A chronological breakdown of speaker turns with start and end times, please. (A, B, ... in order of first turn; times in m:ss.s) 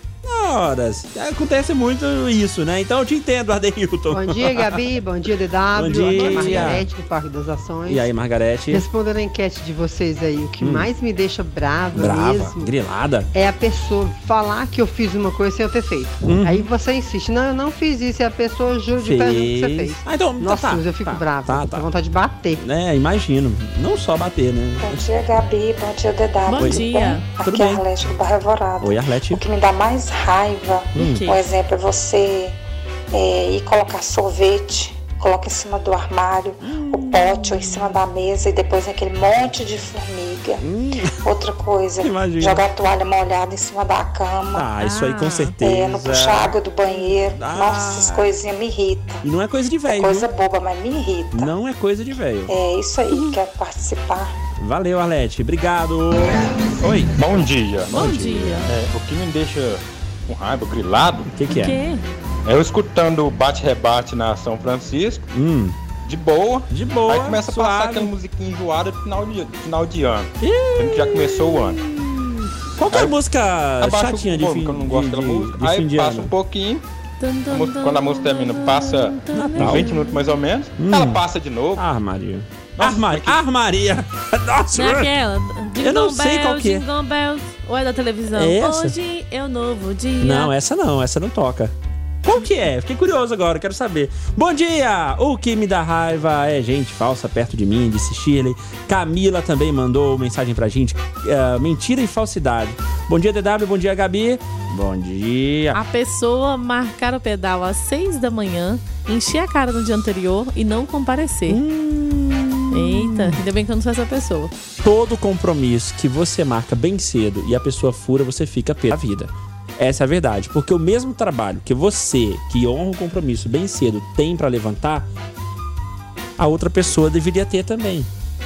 0:00.2-0:04.8 A
0:04.1-0:08.1 B
0:05.7-0:06.9 A
0:06.1-0:06.7 C
0:07.8-0:08.8 A
0:08.7-0:12.7 B
0:10.6-0:10.9 A
0:11.9-0:13.3 A
0:13.3-0:22.6 B
0:16.2-0:16.7 A
0:19.0-0:21.9 A
0:22.6-0:25.0 A
0:24.8-0:32.6 D
0:26.5-0:27.2 C
0:26.5-0:26.9 A
0:27.4-0:27.8 A
0:28.8-0:29.4 A
0:30.9-0:31.2 A
0:31.0-0:31.4 C
0:33.1-0:40.6 D
0:36.6-0:38.0 A
0:40.6-0:41.2 A
0:41.2-0:44.7 D
0:42.0-0:42.6 A
0:44.5-0:46.5 A
0:44.8-0:45.5 C
0:45.5-0:49.2 D
0:47.2-0:48.3 A
0:49.2-0:50.3 A
0:49.8-0:51.5 D
0:51.3-0:52.5 A
0:52.5-0:54.3 D
0:54.6-0:57.2 A
0:57.1-1:01.3 E
0:57.9-0:58.7 C
0:57.9-0:58.7 A
1:01.3-1:01.8 A
1:01.5-1:02.0 C
1:02.4-1:05.3 E
1:05.3-1:05.8 A
1:06.0-1:11.8 E
1:06.7-1:08.1 A
1:10.4-1:16.3 A
1:12.9-1:13.2 E
1:13.8-1:16.8 E
1:17.2-1:20.3 C
1:17.5-1:21.8 E
1:19.3-1:20.0 A
1:20.8-1:21.2 A
1:21.8-1:25.1 A
1:22.8-1:23.4 E
1:24.7-1:30.5 C
1:25.8-1:26.8 A
1:28.3-1:28.9 A
1:30.2-1:45.8 A
1:45.7-1:51.6 C
1:51.5-1:53.4 A
1:52.7-1:54.5 C
1:54.8-2:05.1 A
2:06.4-2:08.1 A